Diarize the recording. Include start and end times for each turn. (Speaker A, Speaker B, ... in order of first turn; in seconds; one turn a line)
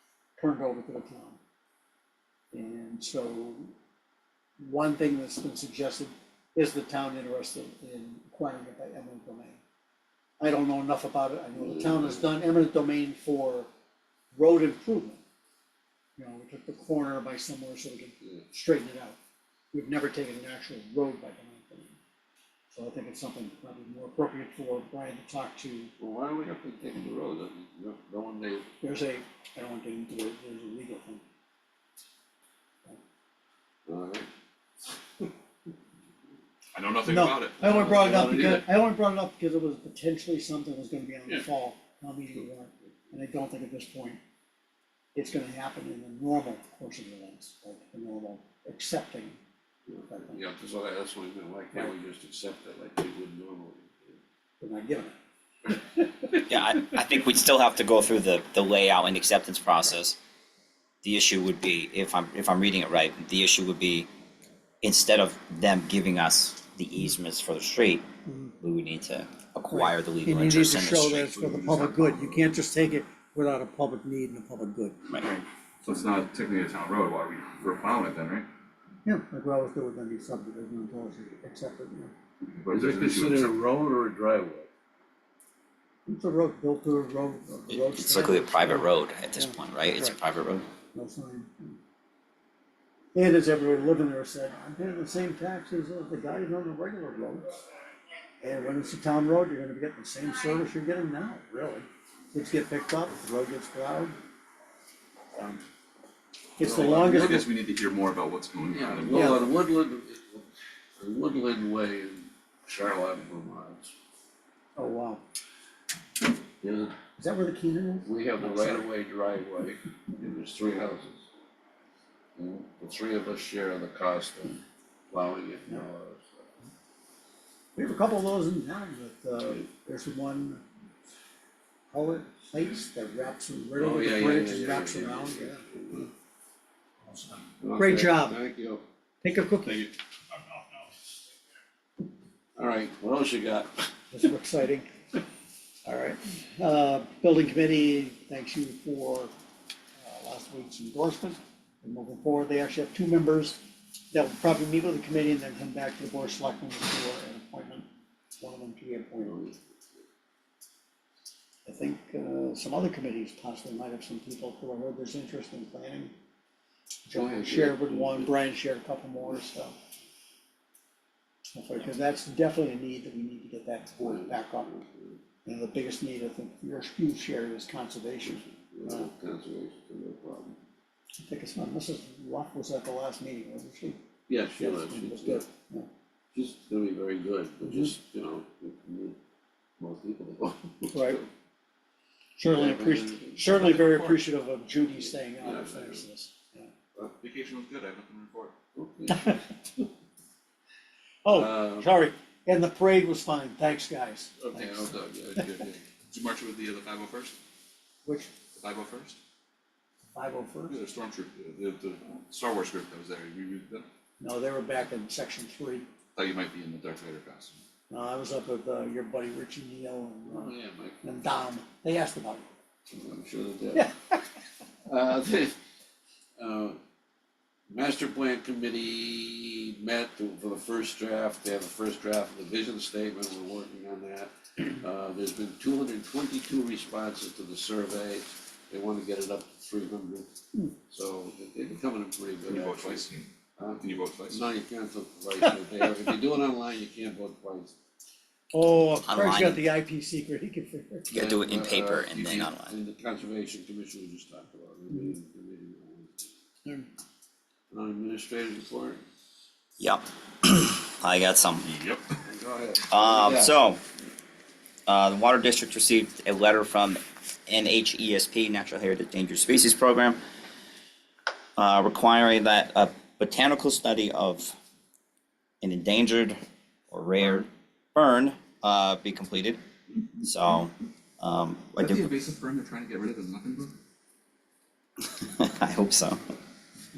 Speaker A: 0.4-1.4
Speaker A: 2.5-3.7
Speaker A: 4.6-9.6
Speaker A: 10.4-13.7
Speaker B: 11.6-12.3
Speaker A: 14.3-15.2
Speaker A: 16.2-19.2
Speaker A: 19.7-22.0
Speaker A: 22.7-25.9
Speaker B: 26.0-28.7
Speaker A: 28.8-31.2
Speaker B: 33.9-34.3
Speaker C: 36.7-37.7
Speaker A: 37.0-44.2
Speaker B: 37.6-38.8
Speaker A: 45.1-49.4
Speaker B: 49.9-54.2
Speaker A: 50.1-50.4
Speaker A: 54.6-55.1
Speaker A: 55.7-56.4
Speaker D: 56.5-60.2
Speaker D: 61.0-64.1
Speaker D: 64.8-68.0
Speaker A: 68.2-68.5
Speaker D: 68.6-71.3
Speaker A: 69.7-75.2
Speaker C: 71.3-72.5
Speaker C: 75.8-78.5
Speaker A: 79.0-82.1
Speaker C: 82.4-83.5
Speaker B: 82.7-84.7
Speaker A: 86.0-90.2
Speaker D: 87.7-90.7
Speaker A: 90.9-91.8
Speaker A: 93.1-97.6
Speaker A: 98.4-104.2
Speaker A: 106.6-107.5
Speaker B: 106.6-107.3
Speaker C: 106.7-109.5
Speaker B: 108.7-113.9
Speaker A: 109.1-109.5
Speaker A: 114.8-115.2
Speaker B: 116.6-116.9
Speaker A: 117.2-118.9
Speaker B: 118.0-121.3
Speaker B: 122.4-126.4
Speaker A: 127.8-130.6
Speaker A: 131.9-135.7
Speaker B: 133.8-136.1
Speaker A: 137.1-138.4
Speaker B: 137.6-138.8
Speaker A: 139.2-139.9
Speaker B: 142.6-143.9
Speaker A: 144.1-144.9
Speaker A: 145.8-149.3
Speaker A: 150.0-153.6
Speaker A: 154.1-157.9
Speaker A: 158.4-159.4
Speaker B: 159.2-159.6
Speaker A: 161.7-166.1
Speaker A: 167.0-169.7
Speaker B: 167.1-168.3
Speaker A: 171.5-174.8
Speaker B: 174.0-175.2
Speaker A: 175.4-179.1
Speaker B: 178.2-180.6
Speaker A: 181.2-184.0
Speaker B: 184.3-185.5
Speaker A: 184.6-185.9
Speaker B: 186.3-189.2
Speaker A: 187.7-187.9
Speaker B: 189.8-191.3
Speaker A: 190.9-191.2
Speaker A: 192.4-196.7
Speaker B: 192.5-193.7
Speaker C: 193.5-194.2
Speaker B: 195.3-196.0
Speaker C: 197.2-198.5
Speaker B: 198.7-199.9
Speaker A: 199.1-199.4
Speaker A: 201.2-204.9
Speaker B: 201.3-201.9
Speaker B: 204.4-205.8
Speaker C: 206.1-207.3
Speaker A: 208.0-208.3
Speaker C: 208.5-209.2
Speaker A: 210.1-210.7
Speaker C: 210.7-213.9
Speaker A: 214.2-215.9
Speaker C: 216.2-217.6
Speaker A: 217.9-222.4
Speaker B: 220.3-221.0
Speaker B: 222.9-223.9
Speaker A: 223.7-224.2
Speaker B: 224.8-225.5
Speaker B: 226.4-226.8
Speaker B: 227.7-240.3
Speaker B: 240.9-243.0
Speaker C: 242.5-243.3
Speaker B: 243.6-247.7
Speaker C: 243.8-244.4
Speaker A: 248.5-251.2
Speaker D: 249.0-249.6
Speaker D: 251.1-252.7
Speaker B: 251.1-256.3
Speaker B: 257.7-259.0
Speaker D: 259.8-261.6
Speaker C: 261.6-262.1
Speaker B: 262.2-263.5
Speaker D: 262.9-263.8
Speaker D: 264.9-270.2
Speaker D: 271.6-274.6
Speaker D: 275.6-276.4
Speaker D: 276.9-279.6
Speaker D: 280.2-282.1
Speaker C: 281.8-283.8
Speaker D: 285.1-286.2